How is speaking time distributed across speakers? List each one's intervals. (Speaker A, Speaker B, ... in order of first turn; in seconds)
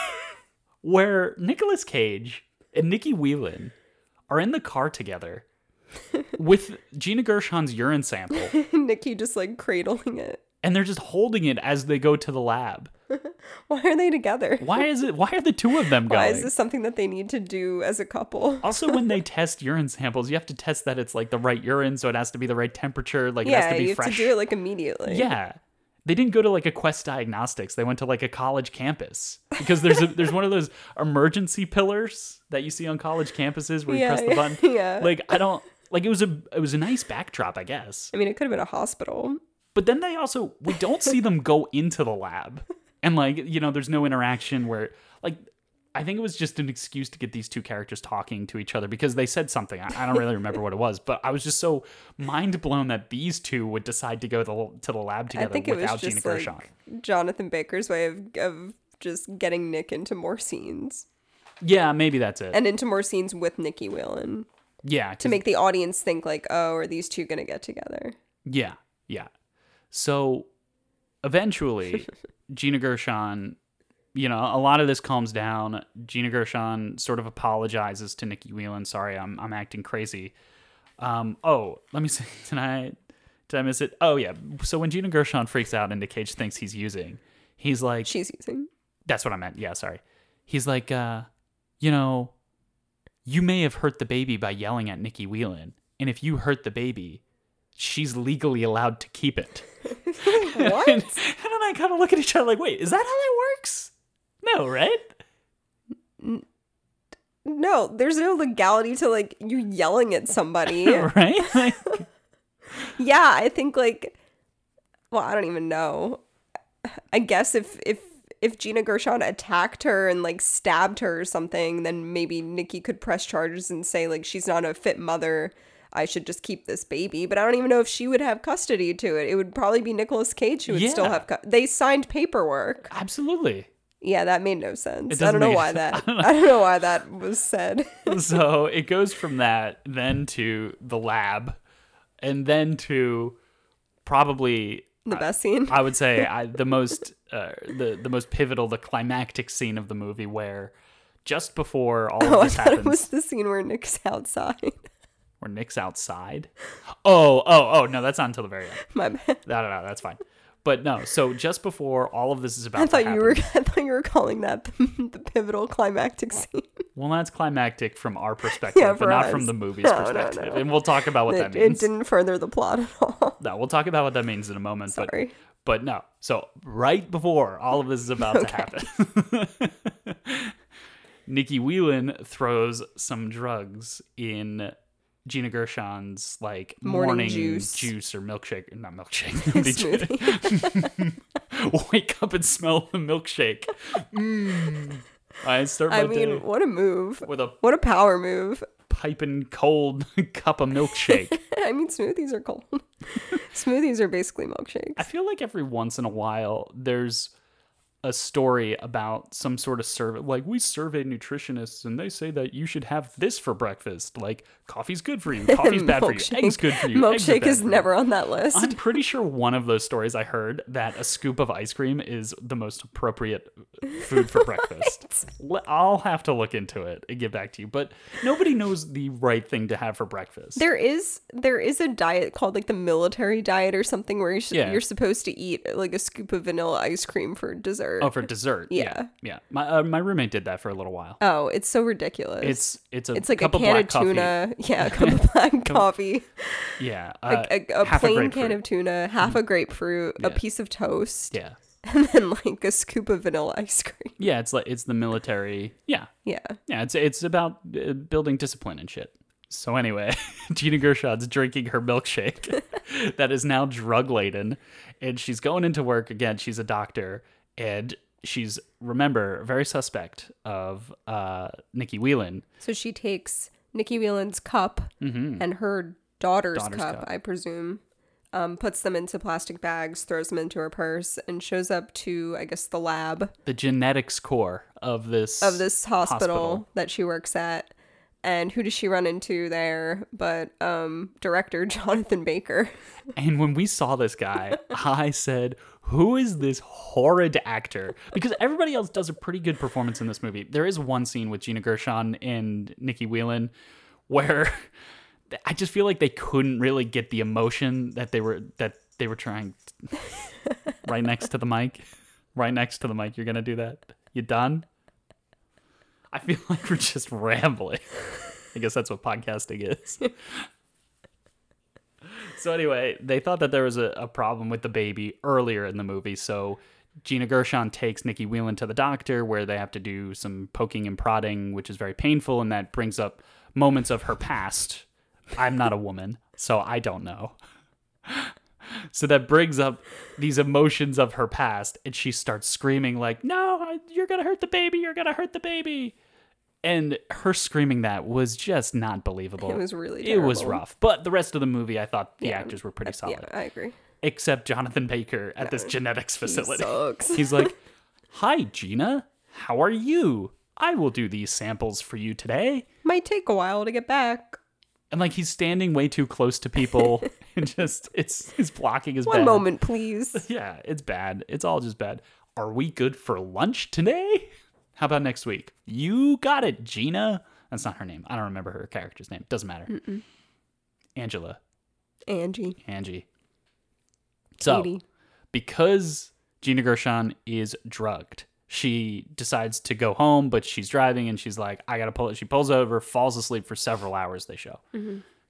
Speaker A: 0.8-3.7, 4.3-5.4, 6.3-8.6, 10.6-12.9, 14.6-16.5, 18.6-24.3, 25.1-38.1, 39.7-56.7, 61.6-62.6, 64.8-65.4, 68.5-69.3, 69.9-70.5, 71.2-73.6, 74.1-80.3, 81.0-83.0, 83.5-88.1, 89.1-91.3, 91.8-92.3, 93.2-97.2, 97.8-99.7, 100.2-103.9, 104.4-105.2, 110.7-112.0, 130.7-131.3, 132.9-133.7, 135.1-136.4, 138.1-141.6, 142.2-143.4, 144.1-150.7, 151.2-153.1, 155.4-156.5, 157.0-158.8, 159.4-163.4, 166.9-171.9, 173.4-175.1, 175.6-180.6, 181.3-196.4, 197.2-197.6, 198.9-201.4, 205.0-207.3, 208.0-217.9, 218.5-230.6, 234.5-234.8, 238.0-241.2, 242.4-245.9, 246.8-248.6, 250.2-250.4, 251.3-251.6, 254.2-256.1, 256.7-272.4, 275.0-275.5, 276.6-277.1, 283.4-286.6, 293.1-303.5, 304.1-304.7, 305.3-309.8, 310.8-311.8, 312.3-314.7, 316.1-317.9, 318.5-320.5, 322.1-337.4, 338.1-345.9, 346.6-353.3, 354.0-357.6, 358.1-362.7, 364.9-369.4, 370.1-379.8, 380.9-381.4, 382.6-383.1, 384.4-384.7, 385.3-394.6
Speaker B: 8.5-10.4, 13.1-14.8, 16.1-19.0, 23.4-25.3, 33.9-35.3, 38.1-39.4, 55.3-61.0, 62.5-64.5, 65.2-68.2, 88.0-88.7, 100.0-101.2, 106.2-106.5, 107.4-112.0, 113.0-114.2, 115.1-116.2, 116.8-132.9, 134.0-138.4, 145.1-146.3, 152.2-154.8, 158.8-159.4, 162.8-166.9, 168.6-170.7, 171.2-173.4, 174.9-175.3, 178.2-178.8, 186.8-187.9, 189.4-190.9, 195.9-198.7, 201.1-205.1, 215.4-218.8, 230.6-239.1, 241.2-254.2, 256.2-256.6, 272.6-277.8, 278.3-283.3, 285.4-287.7, 288.2-292.7, 349.4-350.6, 352.2-353.8, 355.4-357.5, 362.8-364.4, 369.1-370.2, 379.7-380.0, 382.1-382.6, 384.4-384.8, 394.7-395.0